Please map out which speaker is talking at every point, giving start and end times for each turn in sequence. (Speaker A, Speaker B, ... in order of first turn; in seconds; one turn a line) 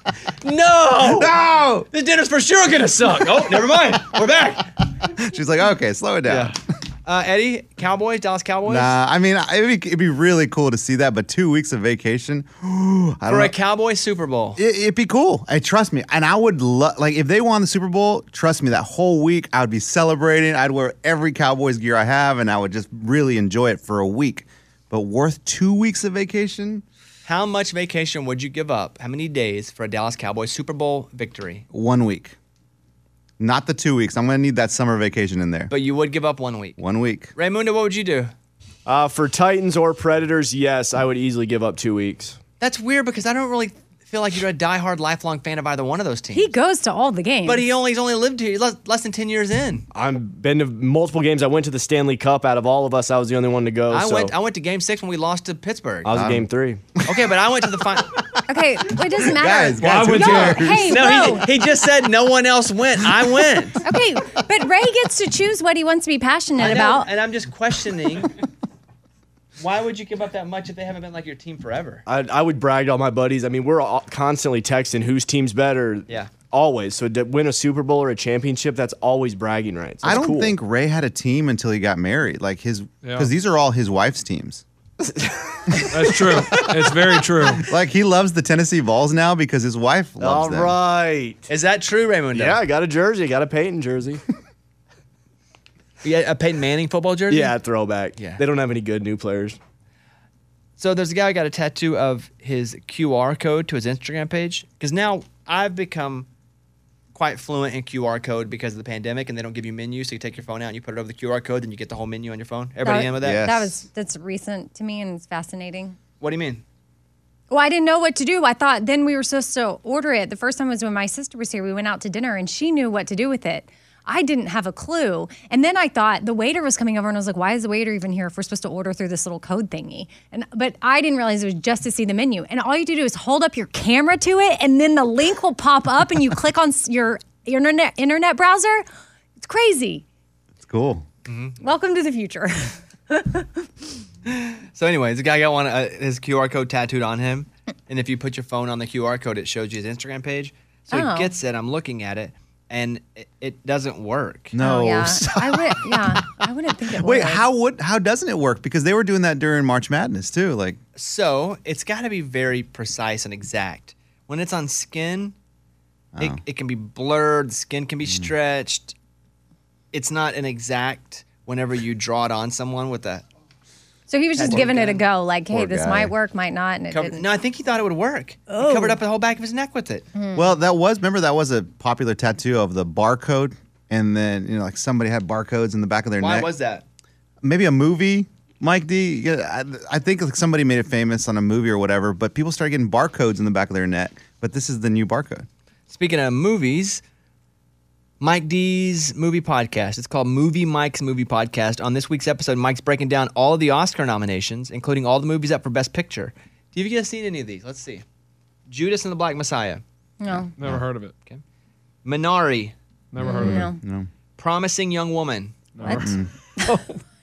Speaker A: 0.4-1.4
Speaker B: 1.1-1.9
Speaker A: 1.9-4.7
Speaker B: 5.0-6.6
Speaker A: 6.2-9.0
Speaker B: 8.6-13.5
Speaker A: 13.2-14.6
Speaker B: 14.6-26.8
Speaker A: 27.2-31.6
Speaker B: 31.7-32.4
Speaker B: 33.4-35.7
Speaker A: 35.7-36.8
Speaker B: 36.8-37.3
Speaker A: 37.3-38.3
Speaker C: 38.9-42.4
Speaker A: 42.6-46.5
Speaker D: 46.3-47.6
Speaker A: 47.4-49.8
Speaker C: 49.9-54.3
Speaker A: 53.9-56.1
Speaker C: 56.0-56.8
Speaker B: 56.1-56.5
Speaker A: 57.0-58.2
Speaker D: 58.5-61.5
Speaker B: 59.2-61.3
Speaker E: 59.8-60.8
Speaker A: 60.8-63.8
Speaker D: 63.8-67.1
Speaker A: 66.6-68.3
Speaker A: 69.6-72.0
Speaker C: 72.0-80.5
Speaker A: 76.1-76.3
Speaker B: 80.0-84.6
Speaker E: 83.0-83.3
Speaker C: 85.0-86.6
Speaker E: 85.9-87.7
Speaker B: 87.5-90.8
Speaker C: 90.2-91.5
Speaker A: 91.5-92.6
Speaker C: 92.3-94.2
Speaker A: 96.0-97.5
Speaker C: 97.3-99.6
Speaker A: 100.8-106.3
Speaker A: 107.1-113.5
Speaker D: 112.8-116.0
Speaker B: 113.2-113.8
Speaker A: 116.2-116.6
Speaker D: 117.5-138.8
Speaker D: 139.4-140.0
Speaker B: 140.6-141.0
Speaker A: 141.3-141.6
Speaker D: 141.6-143.9
Speaker A: 144.2-154.5
Speaker D: 150.9-151.3
Speaker B: 154.5-156.2
Speaker D: 154.6-157.4
Speaker B: 156.9-160.8
Speaker A: 160.9-165.3
Speaker B: 166.1-166.4
Speaker A: 166.2-168.9
Speaker A: 169.9-173.2
Speaker D: 174.1-177.2
Speaker A: 174.3-175.0
Speaker B: 175.5-176.1
Speaker A: 176.9-180.1
Speaker D: 178.5-179.0
Speaker D: 180.1-180.5
Speaker B: 180.3-186.5
Speaker A: 186.2-186.8
Speaker B: 187.4-195.5
Speaker A: 195.9-197.0
Speaker A: 198.2-208.0
Speaker A: 208.7-209.8
Speaker D: 210.2-210.5
Speaker B: 210.3-210.8
Speaker E: 210.6-211.1
Speaker A: 212.0-212.7
Speaker E: 213.1-213.7
Speaker B: 213.2-214.1
Speaker D: 213.2-213.8
Speaker A: 214.4-215.7
Speaker E: 215.7-217.0
Speaker B: 215.8-216.3
Speaker D: 215.8-216.7